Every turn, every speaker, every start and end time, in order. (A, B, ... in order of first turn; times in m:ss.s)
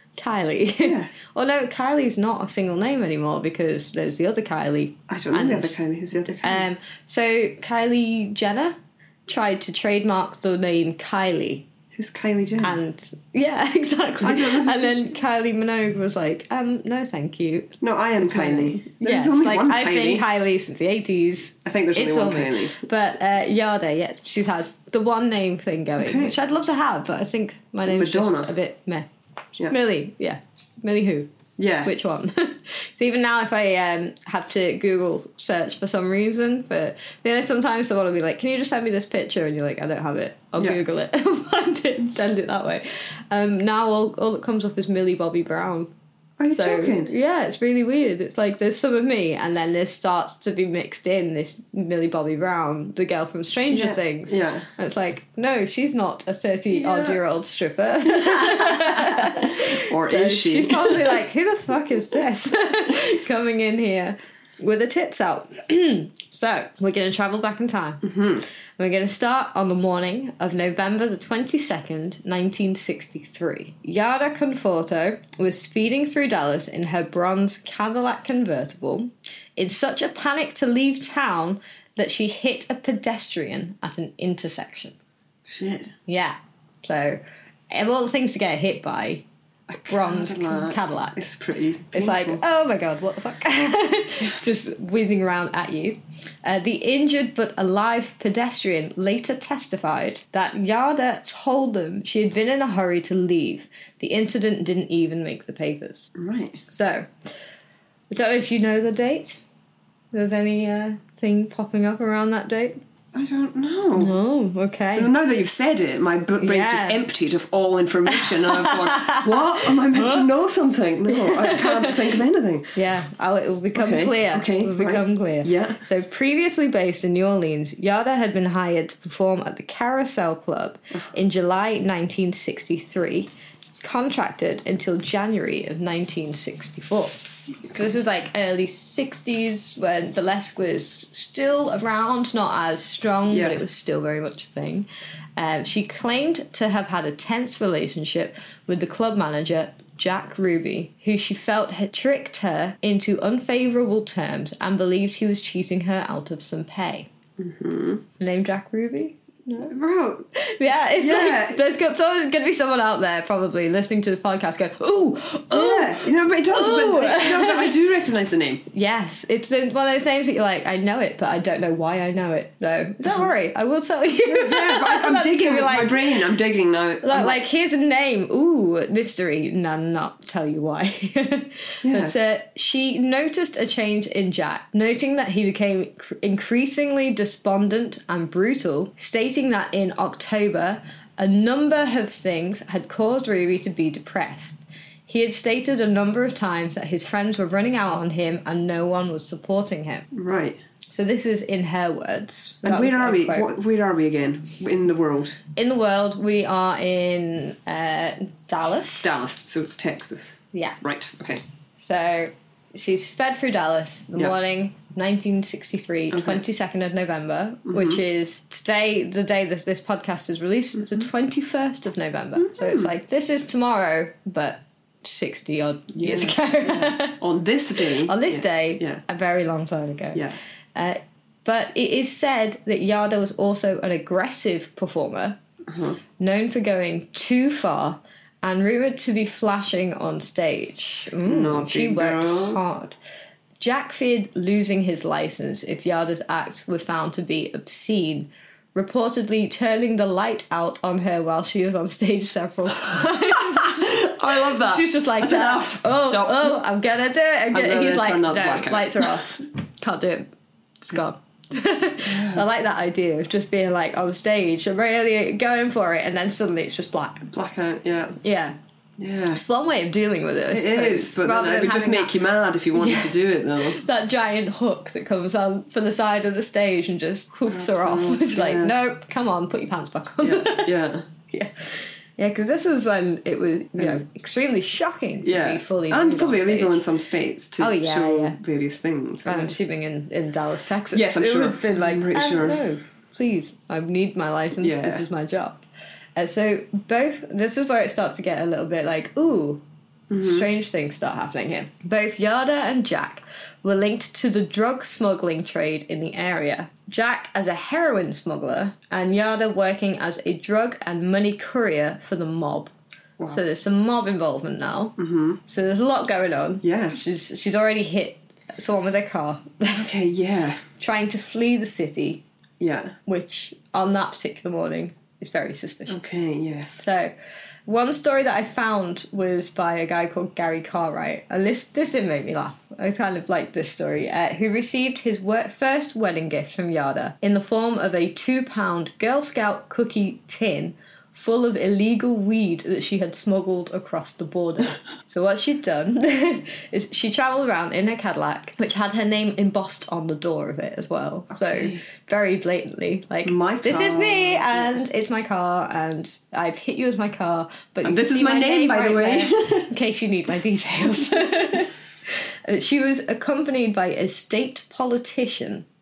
0:00.2-0:08.8 A
0:00.8-0:01.1 B
0:05.1-0:06.7 B
0:09.3-0:11.7 A
0:11.9-0:12.8 B
0:12.6-0:29.1 A
0:14.2-0:15.0 B
0:17.8-0:20.3 B
0:21.6-0:22.8 B
0:26.0-0:26.4 B
0:27.9-0:28.5 B
0:29.6-0:31.3 A
0:31.6-0:31.9 B
0:31.8-0:45.9 A
0:46.4-0:47.1 B
0:46.5-1:08.1 A
0:53.7-0:54.7 B
0:56.7-0:57.2 B
0:58.1-1:01.2 B
1:08.0-1:08.4 B
1:08.8-1:25.0 A
1:25.5-1:26.0 B
1:26.1-1:27.2 A
1:27.7-1:29.2 A
1:29.7-1:32.4 B
1:29.9-1:31.2 A
1:31.9-1:46.1 A
1:46.2-1:46.6 B
1:46.7-1:47.1 A
1:48.1-1:49.4 A
1:50.1-1:52.8 A
1:53.1-1:54.2 B
1:54.0-1:55.1 A
1:55.0-2:02.8 B
1:56.4-1:57.1 A
1:58.1-2:00.2 A
2:01.1-2:02.1 A
2:02.8-2:13.3 A
2:03.8-2:05.8 B
2:13.8-2:37.1 A
2:23.3-2:23.6 B
2:37.4-2:38.0 B
2:38.2-2:39.8 A
2:39.6-2:40.3 B
2:40.4-2:47.8 A
2:40.9-2:41.6 B
2:45.5-2:48.6 B
2:48.7-2:56.3 A
2:54.2-2:57.4 B
2:57.0-3:20.1 A
3:01.8-3:02.2 B
3:20.1-3:20.6 B
3:20.9-3:23.5 A
3:22.6-3:25.4 B
3:25.6-3:29.1 A
3:29.0-3:31.4 B
3:31.8-3:47.2 A
3:36.1-3:36.4 B
3:37.7-3:38.0 B
3:42.4-3:42.9 B
3:45.9-3:49.0 B
3:47.8-3:55.4 A
3:55.7-3:56.0 B
3:56.2-4:03.0 A
4:01.2-4:02.6 B
4:03.6-4:20.3 A
4:12.9-4:16.6 B
4:17.5-4:19.3 B
4:20.8-4:27.3 A
4:22.0-4:22.4 B
4:27.3-4:28.2 B
4:28.2-4:28.6 A
4:29.0-4:29.4 B
4:29.3-4:32.2 A
4:30.5-4:33.8 B
4:32.7-4:40.8 A
4:37.5-4:38.7 B
4:40.2-4:41.1 B
4:41.3-4:46.8 A
4:45.2-4:49.6 B
4:47.6-4:48.4 A
4:49.2-4:55.6 A
4:50.9-4:52.7 B
4:54.6-4:55.0 B
4:56.2-4:59.6 A
5:00.1-5:00.5 B
5:00.2-5:12.7 A
5:13.3-5:19.9 A
5:15.0-5:15.4 B
5:16.6-5:17.0 B
5:19.7-5:20.6 B
5:20.8-5:22.2 A
5:22.6-5:23.0 B
5:23.1-5:26.2 A
5:25.9-5:26.8 B
5:26.8-5:27.1 A
5:27.7-6:05.7 A
5:51.4-5:51.8 B
5:53.2-5:54.8 B
5:57.8-5:59.7 B